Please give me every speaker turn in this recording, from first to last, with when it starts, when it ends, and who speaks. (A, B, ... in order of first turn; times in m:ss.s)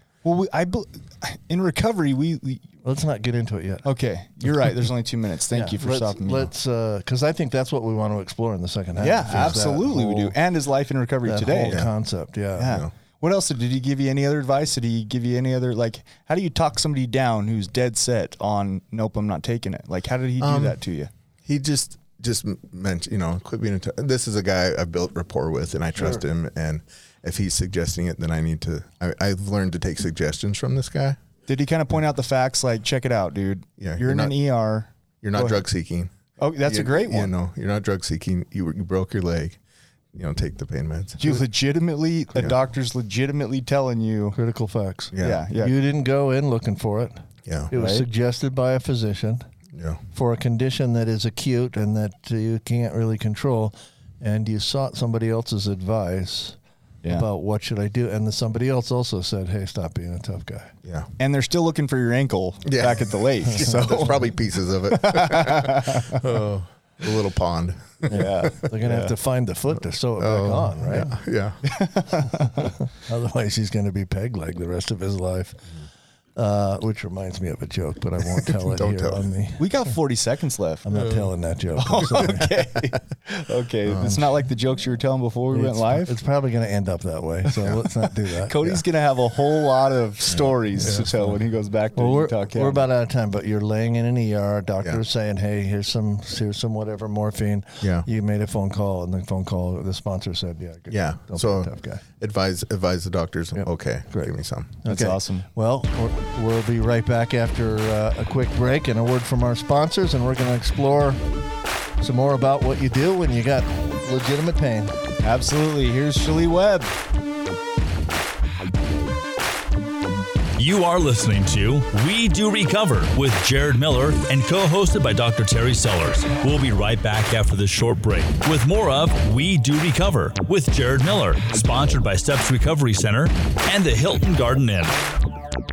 0:00.2-0:02.7 A
0:02.8-0:03.8 B
0:03.8-0:06.5 A
0:05.5-0:10.3 B
0:09.0-0:11.8 A
0:09.3-0:09.6 C
0:11.2-0:12.8 B
0:12.6-0:21.1 A
0:12.6-0:12.9 C
0:20.4-0:20.8 C
0:21.4-0:31.2 C
0:31.5-0:35.6 A
0:33.8-0:34.3 C
0:35.2-0:36.1 C
0:36.4-0:37.3 A
0:36.6-0:39.6 C
0:40.1-0:41.4 C
0:41.2-0:44.4 A
0:44.3-0:49.4 B
0:45.1-0:45.5 C
0:45.2-0:45.7 A
0:47.4-0:47.7 C
0:47.7-0:48.1 A
0:49.7-0:50.0 C
0:50.1-0:56.6 B
0:57.1-1:00.7 B
1:00.8-1:01.1 C
1:01.2-1:04.3 A
1:02.6-1:08.5 C
1:04.9-1:06.2 A
1:08.1-1:09.1 A
1:08.1-1:11.1 B
1:10.2-1:11.6 C
1:11.7-1:12.7 A
1:12.3-1:15.6 B
1:16.4-1:19.9 B
1:18.4-1:19.2 C
1:19.6-1:21.1 A
1:20.8-1:22.5 B
1:21.0-1:21.2 C
1:21.8-1:26.2 A
1:23.9-1:24.2 C
1:25.5-1:28.8 B
1:28.3-1:32.8 A
1:30.8-1:31.4 B
1:30.8-1:31.1 C
1:31.9-1:42.0 B
1:37.8-1:38.1 C
1:40.9-1:44.8 C
1:43.5-1:51.2 B
1:44.8-1:45.5 A
1:52.0-1:55.0 B
1:55.2-1:56.9 A
2:00.6-2:15.0 D